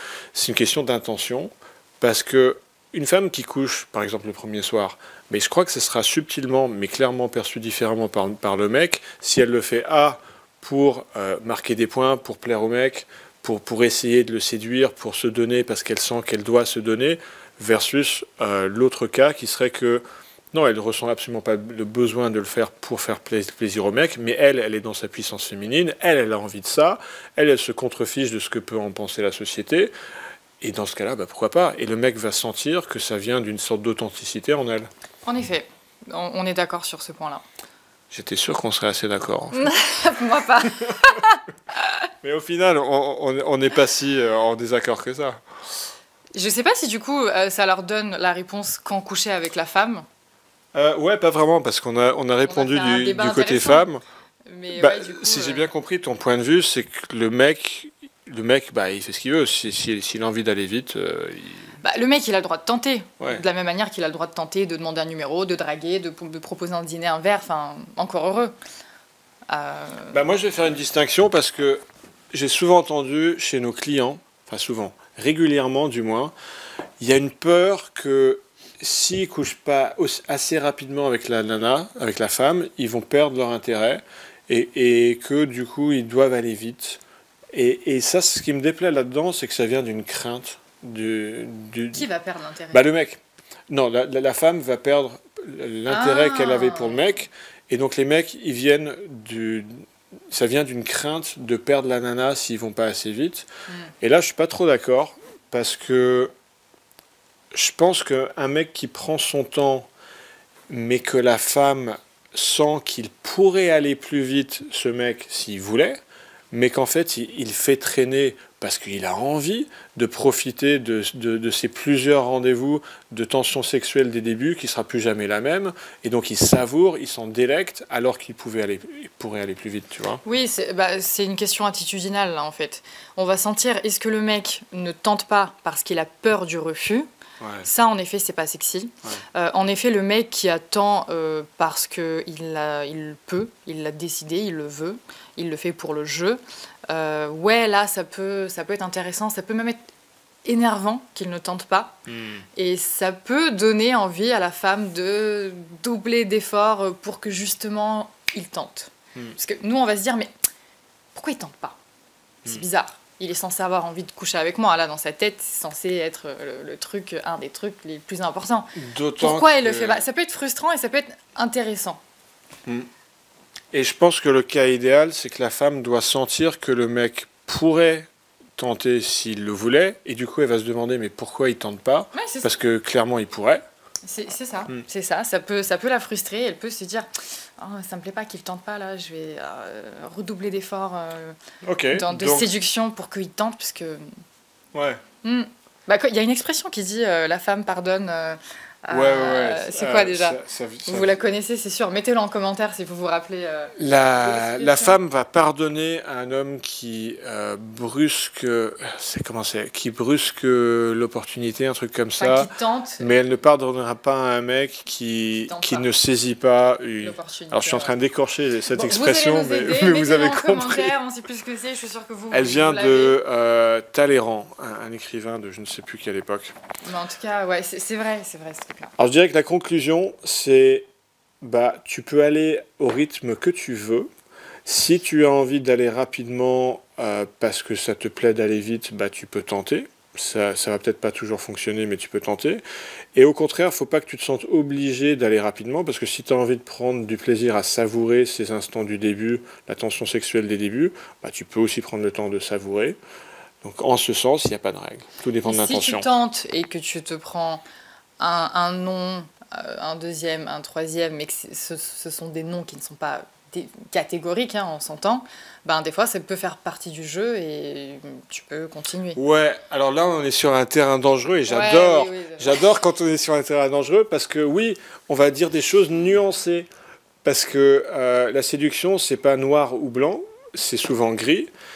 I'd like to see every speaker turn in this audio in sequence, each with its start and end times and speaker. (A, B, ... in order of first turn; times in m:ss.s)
0:00.3-0:29.9 A
0:30.6-0:34.9 A
0:35.2-0:37.4 B
0:38.1-0:39.7 A
0:39.5-0:41.4 B
0:42.2-0:45.4 A
0:46.3-0:50.1 B
0:50.7-0:54.0 A
0:52.4-0:53.9 B
0:54.5-0:55.7 B
0:54.7-1:01.7 A
1:01.8-1:08.6 B
1:09.5-1:10.2 B
1:10.1-1:11.8 A
1:12.3-1:16.3 A
1:17.0-1:27.0 A
1:27.5-1:32.1 A
1:31.9-1:32.8 B
1:32.7-1:43.5 A
1:35.9-1:37.1 B
1:44.0-1:46.3 A
1:47.5-1:49.9 A
1:50.7-1:56.0 A
1:56.5-2:10.2 A
2:10.2-2:17.1 B
2:17.4-2:17.7 A
2:17.6-2:29.8 B
2:30.4-2:32.0 B
2:32.1-2:32.4 A
2:32.6-2:40.3 B
2:41.2-2:41.8 B
2:42.4-2:52.0 B
2:48.8-2:50.0 A
2:53.7-3:03.6 A
3:02.1-3:02.6 B
3:04.0-3:11.4 B
3:11.6-3:12.5 A
3:11.9-3:14.1 B
3:14.7-3:15.0 A
3:15.2-3:25.0 B
3:18.9-3:21.2 A
3:23.8-3:32.5 A
3:32.2-3:33.2 B
3:33.0-3:40.9 A
3:35.5-3:35.9 B
3:37.0-3:38.0 B
3:38.7-3:43.2 B
3:42.3-3:46.6 A
3:46.8-3:48.9 B
3:49.0-3:50.9 A
3:51.4-3:54.1 A
3:54.7-4:02.6 A
4:03.2-4:13.0 A
4:13.6-4:16.1 A
4:15.4-4:17.6 B
4:18.2-4:29.2 B
4:29.2-4:36.7 A
4:31.5-4:32.6 B
4:37.2-4:41.5 A